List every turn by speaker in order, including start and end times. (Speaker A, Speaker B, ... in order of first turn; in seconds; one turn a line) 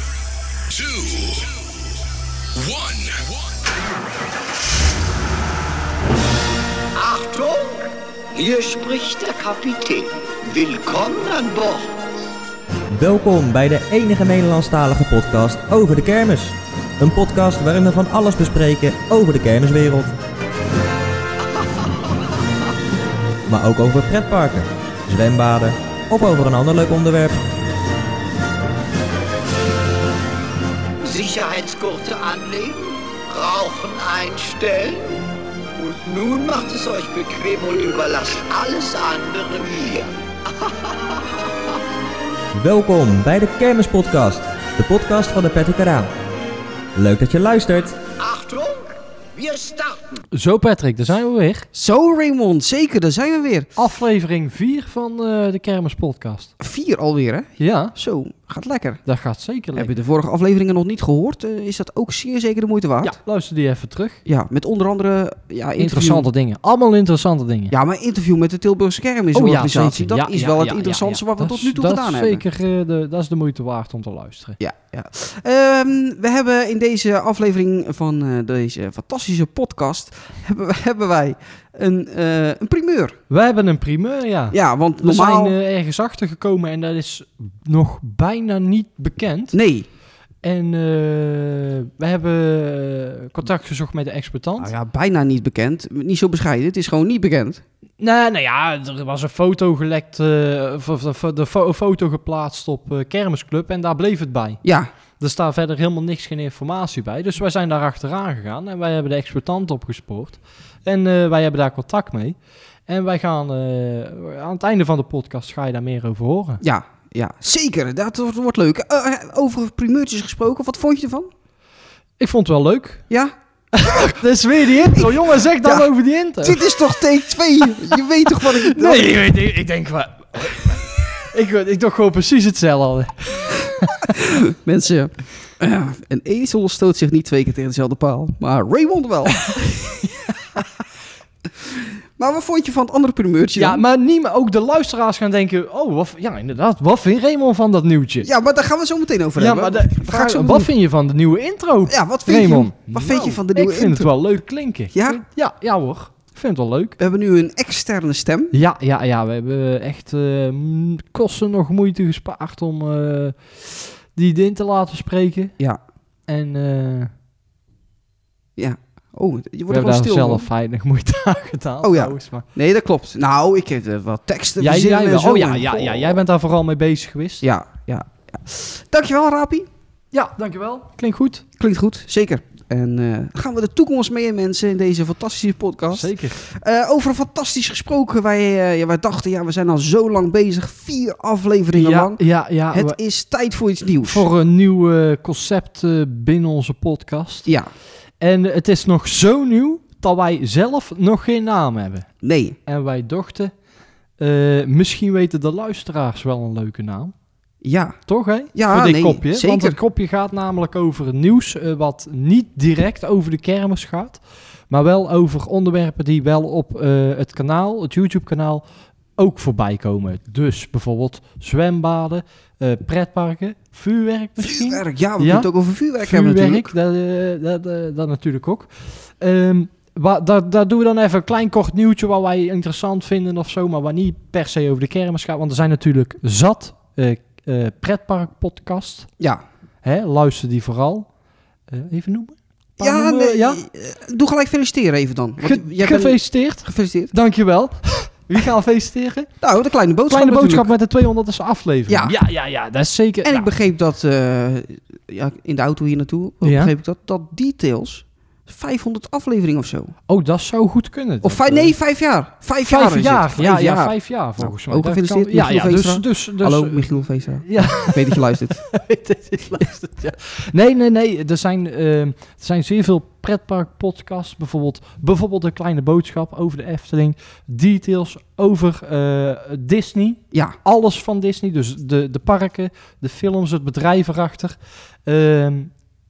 Speaker A: 0.7-1.6
Speaker A: 2.5-3.6
Speaker B: 6.9-11.9
Speaker C: 12.9-20.1
Speaker B: 21.6-22.1
Speaker C: 23.5-27.4
Speaker B: 31.0-35.2
Speaker B: 35.8-41.5
Speaker C: 42.5-46.1
Speaker C: 46.9-48.0
Speaker B: 48.2-50.2
Speaker D: 50.3-51.7
Speaker E: 51.7-53.7
Speaker D: 53.8-56.5
Speaker E: 56.6-59.0
Speaker D: 57.6-57.9
Speaker D: 59.0-59.9
Speaker E: 59.7-63.2
Speaker D: 63.0-64.2
Speaker E: 64.2-66.3
Speaker D: 65.8-67.7
Speaker E: 67.7-72.4
Speaker D: 69.3-74.6
Speaker E: 74.6-83.2
Speaker D: 83.3-89.5
Speaker E: 84.5-85.5
Speaker E: 89.5-89.8
Speaker D: 90.4-94.7
Speaker E: 94.6-97.6
Speaker D: 98.0-104.6
Speaker E: 104.6-104.9
Speaker D: 105.2-116.6
Speaker E: 116.6-121.3
Speaker D: 122.2-123.0
Speaker D: 123.7-127.0
Speaker E: 124.9-125.9
Speaker E: 126.4-129.3
Speaker D: 127.6-134.2
Speaker E: 134.1-139.9
Speaker E: 141.6-143.8
Speaker D: 143.5-148.3
Speaker E: 148.2-150.7
Speaker D: 149.4-157.0
Speaker E: 151.9-154.1
Speaker E: 154.9-155.2
Speaker E: 157.0-158.5
Speaker D: 158.5-165.5
Speaker D: 166.3-167.1
Speaker E: 168.6-170.5
Speaker D: 169.7-172.4
Speaker E: 171.8-176.2
Speaker D: 174.6-177.4
Speaker E: 177.4-179.7
Speaker D: 180.1-181.4
Speaker E: 181.6-194.3
Speaker D: 185.9-186.4
Speaker D: 191.7-193.0
Speaker D: 194.0-197.5
Speaker D: 198.2-202.1
Speaker E: 202.2-202.6
Speaker D: 202.7-203.5
Speaker D: 204.2-207.1
Speaker E: 207.6-208.0
Speaker D: 208.1-218.6
Speaker E: 208.5-209.8
Speaker D: 219.2-225.5
Speaker E: 224.4-226.7
Speaker D: 226.0-239.1
Speaker D: 239.8-241.1
Speaker D: 241.7-243.6
Speaker E: 242.8-247.1
Speaker D: 245.4-249.3
Speaker E: 249.4-250.7
Speaker D: 250.1-253.5
Speaker E: 251.9-252.2
Speaker E: 253.2-259.9
Speaker D: 256.4-256.7
Speaker D: 260.1-261.7
Speaker E: 261.2-268.6
Speaker D: 262.7-285.7
Speaker E: 280.3-280.6